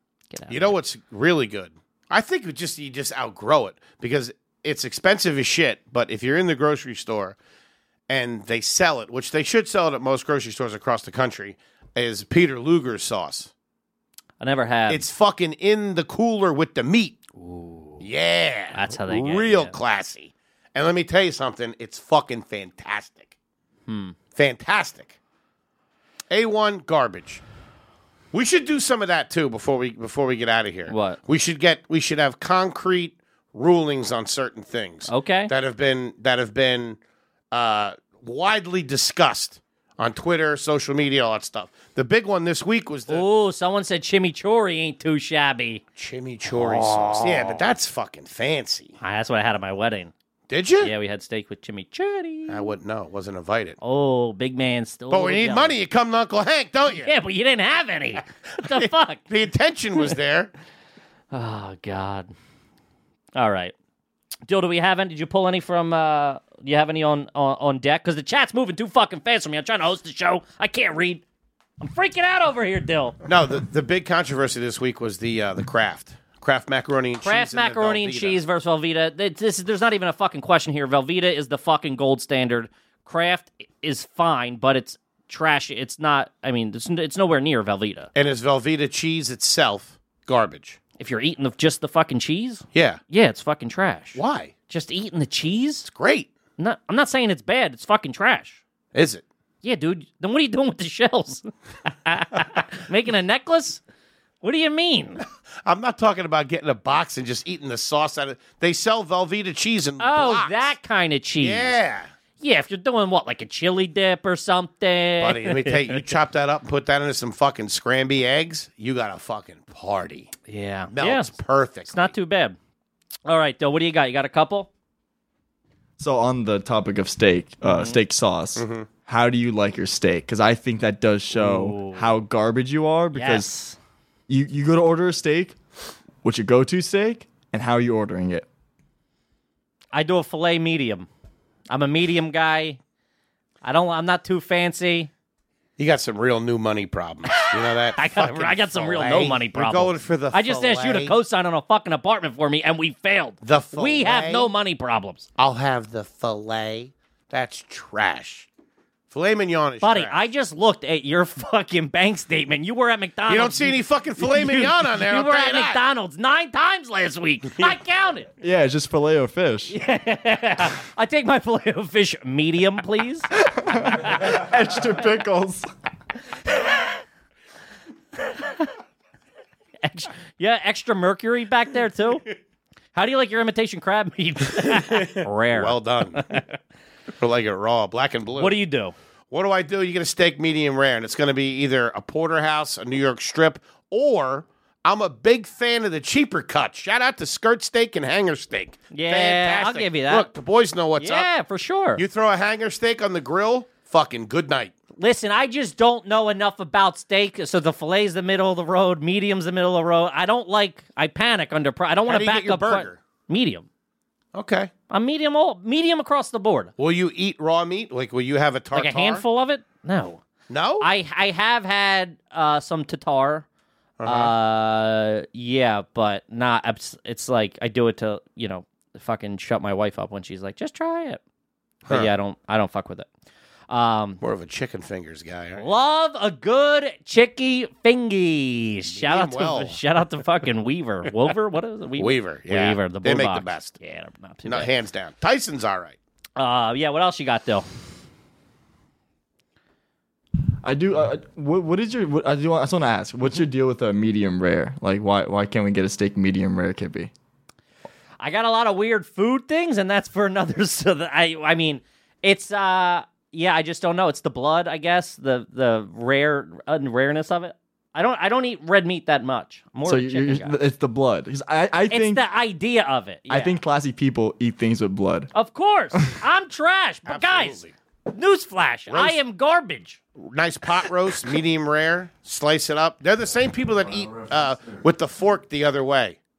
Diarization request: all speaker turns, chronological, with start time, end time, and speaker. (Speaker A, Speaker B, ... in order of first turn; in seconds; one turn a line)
Speaker A: 0.3-0.7
Speaker B: 0.5-7.4
Speaker B: 8.1-13.5
Speaker A: 14.4-15.1
Speaker B: 14.9-17.2
Speaker A: 17.4-18.0
Speaker B: 18.0-23.3
Speaker A: 18.7-19.7
Speaker A: 23.9-24.2
Speaker B: 24.3-25.2
Speaker B: 26.3-27.4
Speaker B: 28.3-37.0
Speaker A: 30.9-31.2
Speaker A: 35.1-35.5
Speaker B: 37.5-43.2
Speaker A: 43.1-45.8
Speaker B: 46.0-49.0
Speaker A: 46.5-47.6
Speaker A: 49.0-50.1
Speaker B: 50.5-50.9
Speaker A: 50.8-52.7
Speaker B: 52.5-53.8
Speaker A: 53.8-55.8
Speaker B: 55.1-57.1
Speaker A: 56.9-59.2
Speaker B: 58.6-60.5
Speaker A: 61.3-62.3
Speaker A: 63.3-63.7
Speaker A: 64.5-71.2
Speaker A: 71.8-73.2
Speaker B: 73.3-78.4
Speaker A: 77.2-88.1
Speaker B: 88.1-90.8
Speaker A: 91.0-95.9
Speaker B: 92.7-93.0
Speaker B: 94.1-94.5
Speaker B: 95.9-96.3
Speaker A: 96.6-98.6
Speaker B: 98.9-99.3
Speaker A: 99.6-103.8
Speaker A: 104.4-105.2
Speaker B: 105.6-110.7
Speaker A: 110.0-111.7
Speaker B: 111.4-112.1
Speaker A: 112.4-116.0
Speaker B: 115.2-120.3
Speaker A: 120.5-121.3
Speaker B: 120.9-122.1
Speaker A: 121.9-122.6
Speaker A: 123.3-124.7
Speaker C: 126.0-133.5
Speaker A: 127.6-128.0
Speaker B: 128.6-128.9
Speaker A: 131.3-132.1
Speaker A: 133.1-133.8
Speaker C: 134.3-135.6
Speaker C: 136.2-138.5
Speaker A: 139.9-141.1
Speaker A: 141.7-142.8
Speaker A: 143.6-145.1
Speaker B: 145.8-151.1
Speaker A: 147.3-155.3
Speaker B: 153.4-154.5
Speaker B: 155.4-158.5
Speaker B: 159.1-160.2
Speaker A: 159.8-168.3
Speaker B: 163.3-165.8
Speaker C: 168.4-169.7
Speaker A: 169.7-173.3
Speaker C: 173.4-175.7
Speaker A: 178.3-178.7
Speaker A: 179.8-182.3
Speaker A: 182.9-186.4
Speaker B: 184.9-186.3
Speaker B: 187.2-188.6
Speaker A: 188.4-188.9
Speaker B: 189.3-201.3
Speaker A: 198.9-200.3
Speaker A: 201.0-202.0
Speaker B: 201.9-204.7
Speaker A: 205.0-213.7
Speaker B: 212.1-213.0
Speaker B: 214.3-214.7
Speaker A: 214.9-216.7
Speaker B: 216.8-219.2
Speaker A: 218.7-220.2
Speaker B: 220.5-220.9
Speaker A: 220.8-223.4
Speaker B: 224.0-224.3
Speaker A: 224.0-231.2
Speaker A: 231.9-233.1
Speaker A: 233.7-234.2
Speaker B: 234.2-235.7
Speaker A: 235.6-244.7
Speaker B: 238.9-239.8
Speaker B: 242.0-243.7
Speaker B: 244.4-246.0
Speaker A: 246.4-247.7
Speaker C: 250.6-257.1
Speaker A: 258.2-270.5
Speaker C: 269.9-272.2
Speaker A: 271.9-273.6
Speaker C: 273.3-275.3
Speaker A: 275.3-280.0
Speaker B: 277.1-277.7
Speaker B: 278.9-279.2
Speaker B: 280.2-286.2